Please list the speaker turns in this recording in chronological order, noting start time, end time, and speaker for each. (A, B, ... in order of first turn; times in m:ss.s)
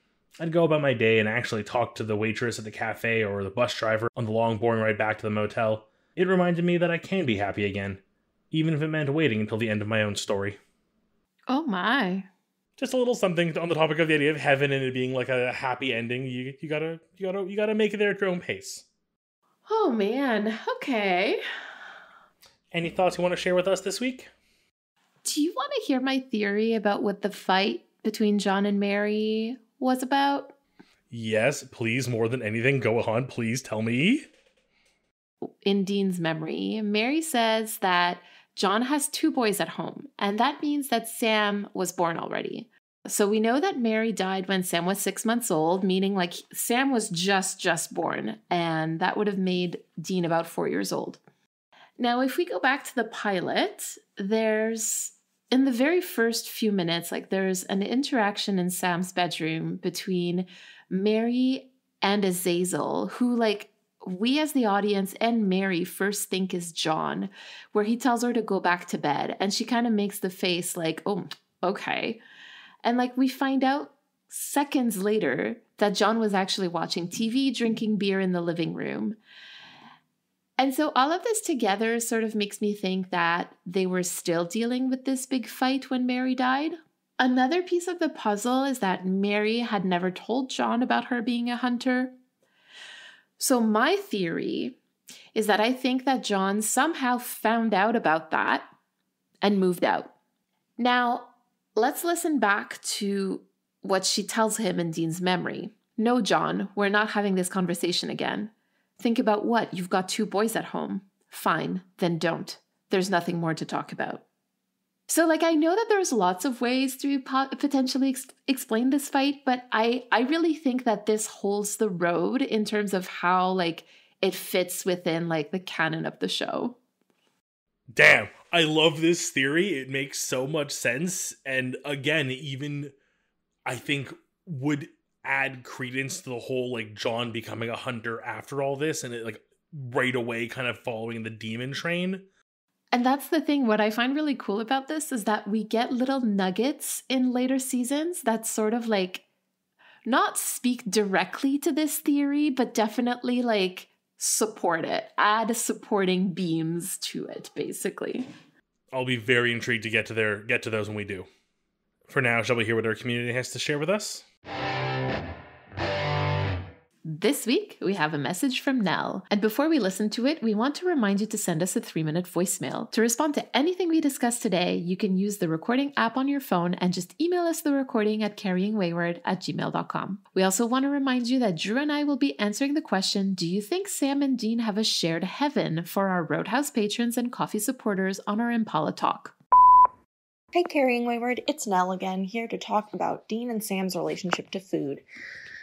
0:00.4-0:08.0 A
0:08.5-0:10.6 A
0:11.5-0:12.3 B
0:12.8-0:18.8 A
0:19.6-0:21.4 B
0:22.7-0:24.3 A
0:25.2-0:30.5 B
0:31.1-0:34.3 A
0:35.6-0:51.2 B
0:52.0-1:12.2 B
1:12.8-1:19.2 B
1:20.6-1:32.1 B
1:33.4-1:34.8 B
1:35.3-1:38.6 B
1:39.4-1:40.1 B
1:40.8-1:54.2 B
1:55.1-2:06.8 B
2:07.9-2:12.9 A
2:13.6-2:22.2 A
2:22.9-2:29.2 B
2:30.0-2:38.2 B
2:38.9-2:41.3 A
2:42.1-2:44.2 A
2:47.0-3:09.3 B
3:10.5-3:15.0 C